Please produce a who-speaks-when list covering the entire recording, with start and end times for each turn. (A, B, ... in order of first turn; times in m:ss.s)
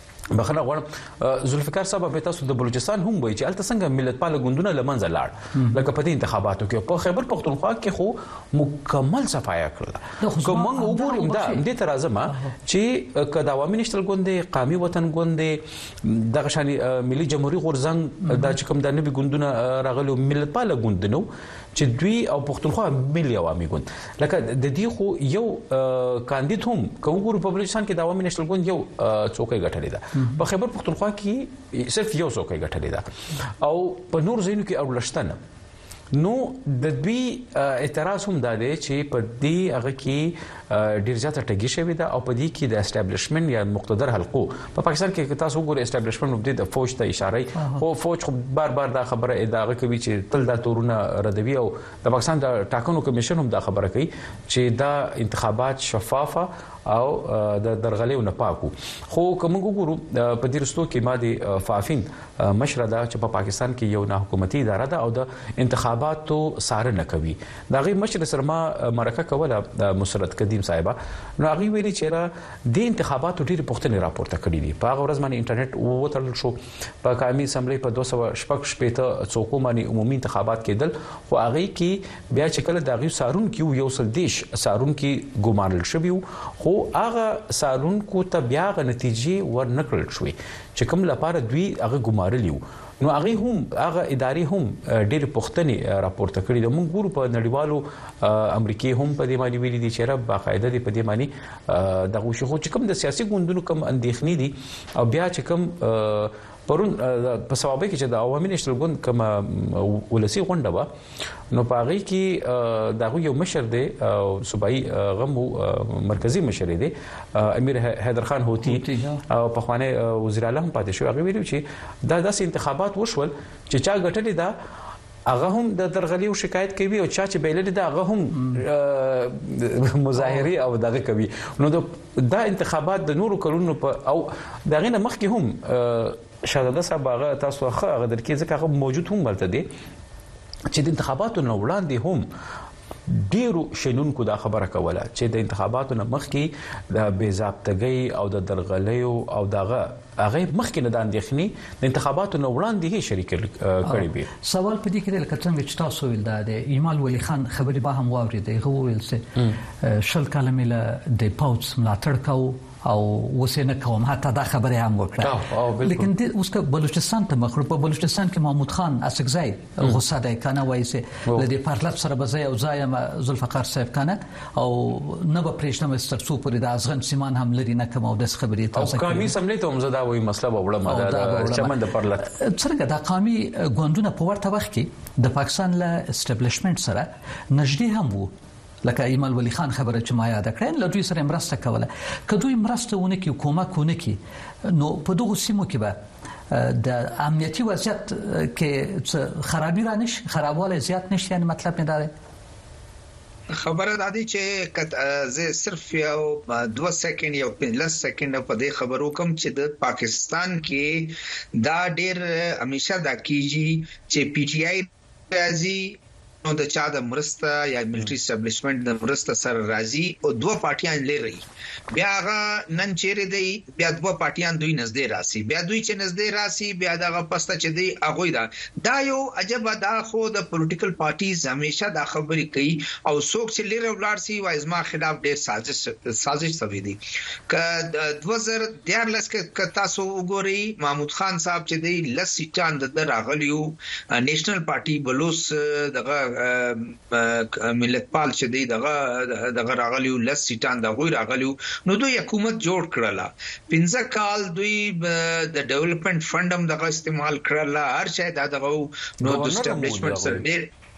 0:00.3-0:33.1 A
0:10.2-0:11.6 B
0:18.3-0:18.5 B
0:33.6-0:35.4 A
0:36.1-1:50.9 A
1:51.5-2:04.5 A
1:58.6-1:59.2 B
2:05.3-2:19.6 A
2:20.7-2:22.2 A
2:23.3-2:34.3 A
2:33.9-2:39.3 B
2:39.8-2:59.3 B
2:45.2-2:46.1 A
2:58.7-3:02.3 A
3:00.9-3:01.7 B
3:02.2-3:08.3 B
3:08.8-3:14.2 B
3:14.7-3:16.0 B
3:16.5-3:22.1 B
3:23.5-4:20.6 C
4:19.2-4:20.5 A